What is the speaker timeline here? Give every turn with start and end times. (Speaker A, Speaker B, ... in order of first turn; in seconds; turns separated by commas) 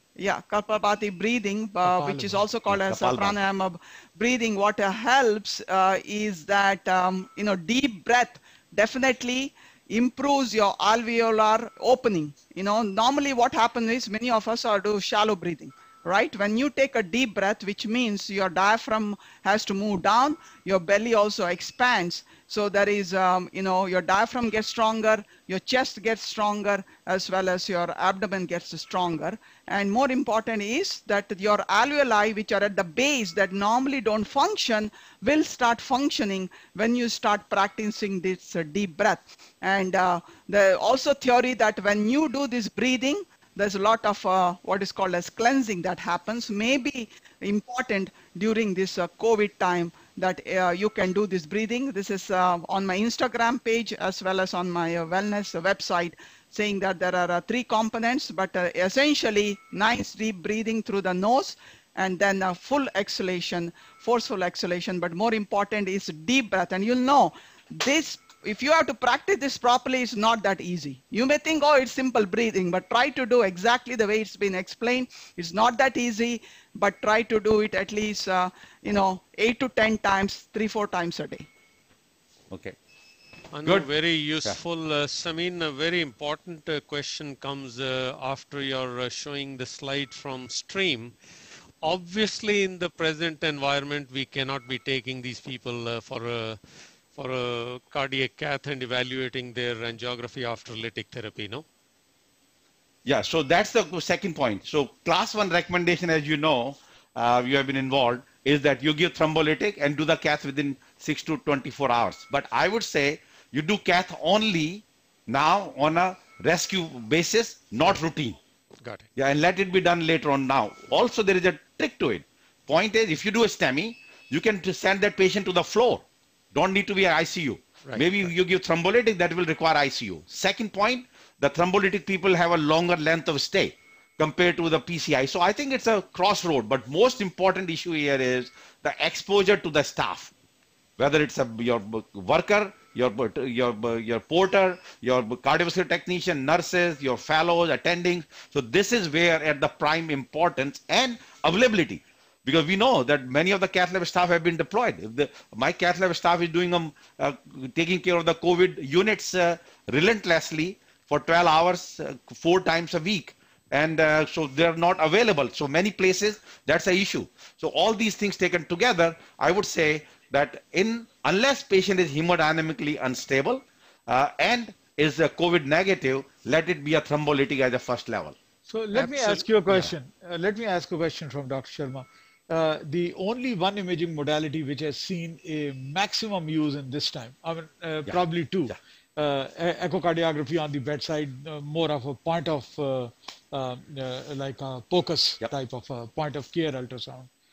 Speaker A: 0.2-81.5, Speaker B: 2.0-2.3, Speaker C: 2.7-3.4, Speaker C: 82.5-82.8, Speaker D: 83.5-91.1, Speaker D: 91.8-96.6, Speaker D: 97.1-101.6, Speaker C: 103.0-118.4, Speaker C: 119.2-140.3, Speaker D: 127.8-128.3, Speaker C: 141.0-178.3, Speaker B: 178.7-197.3, Speaker D: 178.9-179.4